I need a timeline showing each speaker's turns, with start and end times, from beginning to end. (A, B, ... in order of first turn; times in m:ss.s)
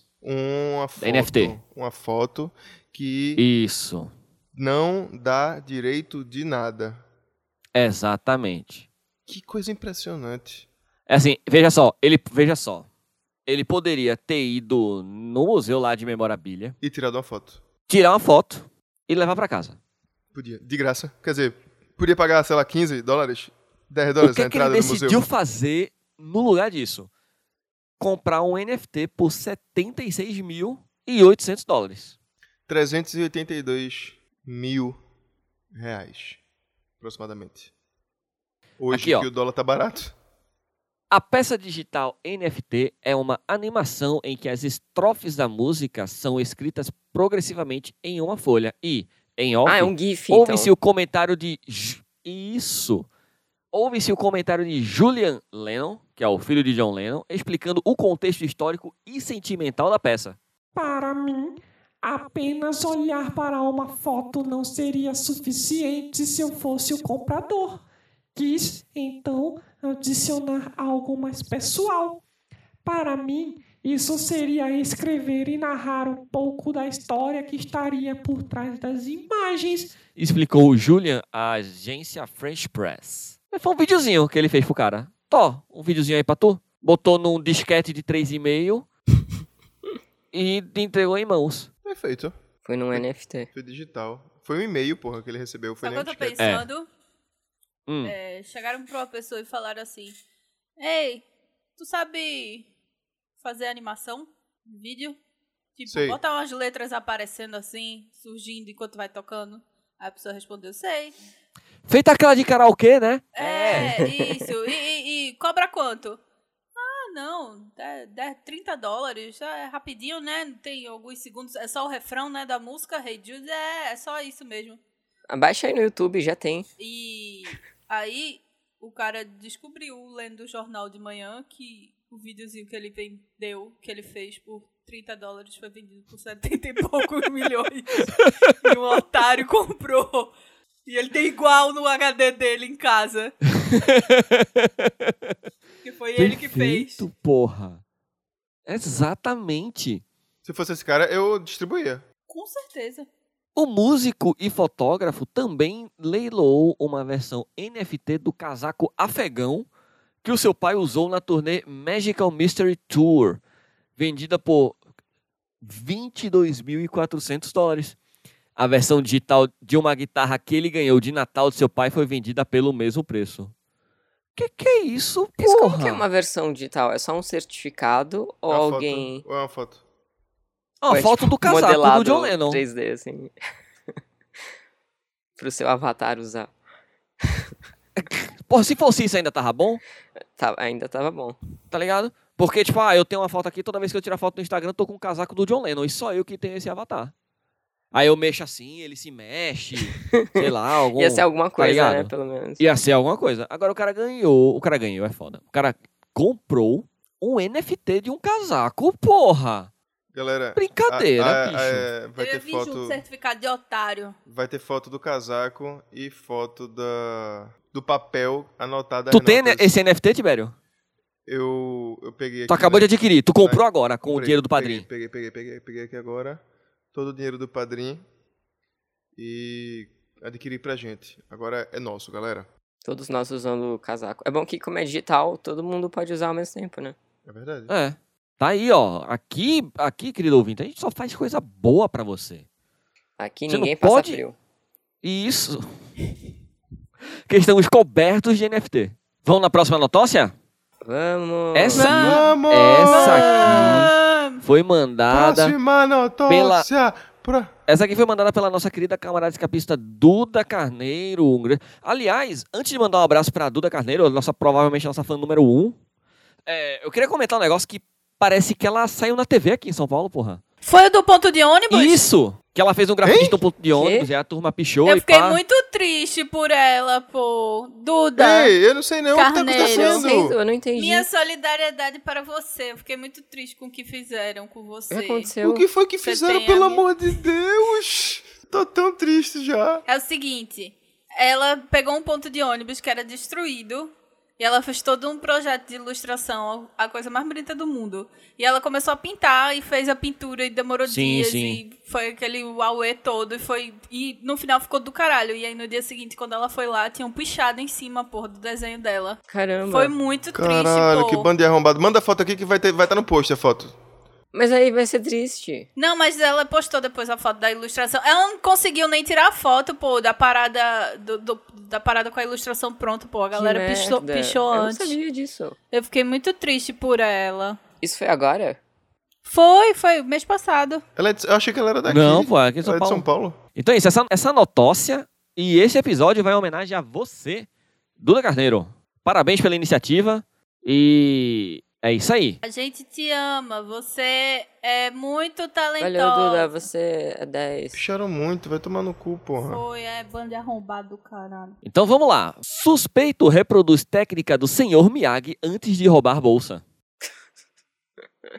0:00.2-0:03.4 A
0:01.0-0:01.6 B
0:03.4-0:04.1 B
0:04.6-0:07.0 A
0:07.7-0:08.9 B
0:09.3-0:10.7 A
0:11.1-0:12.9 B
0:13.4-0:16.7 B
0:16.8-0:17.6 A
0:17.9-0:19.8 B
0:20.3-0:25.2 A
0:24.2-0:27.1 B
0:28.0-0:32.1 B
0:32.7-0:35.0 A
0:35.7-0:36.4 A
0:37.0-0:37.7 A
0:38.8-0:40.1 A
0:38.9-0:39.3 B
0:41.1-0:53.1 B
0:49.6-0:50.7 C
0:53.7-1:00.4 B
1:00.7-1:07.8 D
1:08.3-1:12.2 D
1:12.8-1:20.0 D
1:20.1-1:28.9 B
1:30.3-1:31.7 B
1:31.8-1:32.3 A
1:32.6-1:33.5 C
1:32.9-1:36.5 A
1:35.8-1:36.9 E
1:36.4-1:36.7 B
1:37.9-1:38.1 B
1:38.0-1:40.2 E
1:40.8-1:41.2 E
1:41.8-1:42.7 E
1:43.4-1:45.2 E
1:45.8-1:51.1 E
1:45.9-1:46.2 A
1:51.9-1:54.0 B
1:53.4-1:56.2 E
1:53.7-1:54.4 C
1:56.8-2:04.8 E
2:05.3-2:06.7 C
2:06.8-2:20.3 E
2:20.8-2:23.4 E
2:23.6-2:25.3 B
2:25.8-2:27.0 E
2:26.2-2:27.8 B
2:28.7-2:30.0 B
2:30.4-2:32.0 A
2:32.3-2:33.1 E
2:33.6-2:39.7 B
2:40.2-2:43.4 B
2:44.0-2:44.8 B
2:45.6-2:48.0 B
2:48.6-2:53.5 B
2:54.4-2:56.0 B
2:55.4-2:59.2 C
2:58.5-2:59.8 A
3:00.8-3:02.6 B
3:00.9-3:03.3 C
3:05.4-3:06.5 C
3:08.0-3:09.8 B
3:10.4-3:11.4 C
3:11.7-3:17.1 B
3:17.9-3:29.7 B
3:19.9-3:22.6 C
3:30.1-3:33.0 A
3:30.6-3:31.9 B
3:32.2-3:34.1 E
3:34.3-3:39.7 A
3:39.1-3:40.5 B
3:41.3-3:46.4 A
3:42.5-3:44.8 B
3:46.9-3:48.0 A
3:49.2-3:52.5 A
3:52.8-3:57.0 C
3:57.2-3:57.7 A
3:57.7-4:02.4 B
4:03.2-4:04.4 C
4:03.5-4:04.2 B
4:05.0-4:05.7 B
4:07.3-4:10.3 B
4:10.8-4:12.0 C
4:11.5-4:15.6 B
4:11.7-4:12.3 E
4:11.9-4:13.9 A
4:12.8-4:14.4 E
4:15.1-4:17.5 A
4:16.3-4:16.7 B
4:17.7-4:25.8 B
4:26.4-4:30.4 B
4:30.6-4:32.0 E
4:31.7-4:35.4 B
4:33.0-4:33.4 A
4:33.7-4:34.1 C
4:34.8-4:38.5 E
4:38.2-4:40.3 A
4:39.1-4:40.1 E
4:39.6-4:41.0 C
4:40.8-4:45.3 E
4:44.9-4:45.6 C
4:45.4-4:49.8 A
4:46.0-4:46.8 E
4:49.9-5:11.3 E
5:00.9-5:01.6 B
5:09.3-5:09.9 C
5:10.3-5:13.8 A
5:14.3-5:15.7 C
5:15.8-5:25.0 E
5:23.3-5:25.6 C
5:25.7-5:27.6 E
5:27.8-5:28.6 C
5:29.2-5:30.8 E
5:31.0-5:33.4 A
5:31.9-5:37.5 B
5:38.0-5:42.4 B
5:42.4-5:46.5 E
5:45.8-5:47.8 C
5:47.7-5:49.6 A
5:49.4-5:51.6 E
5:51.6-5:56.6 B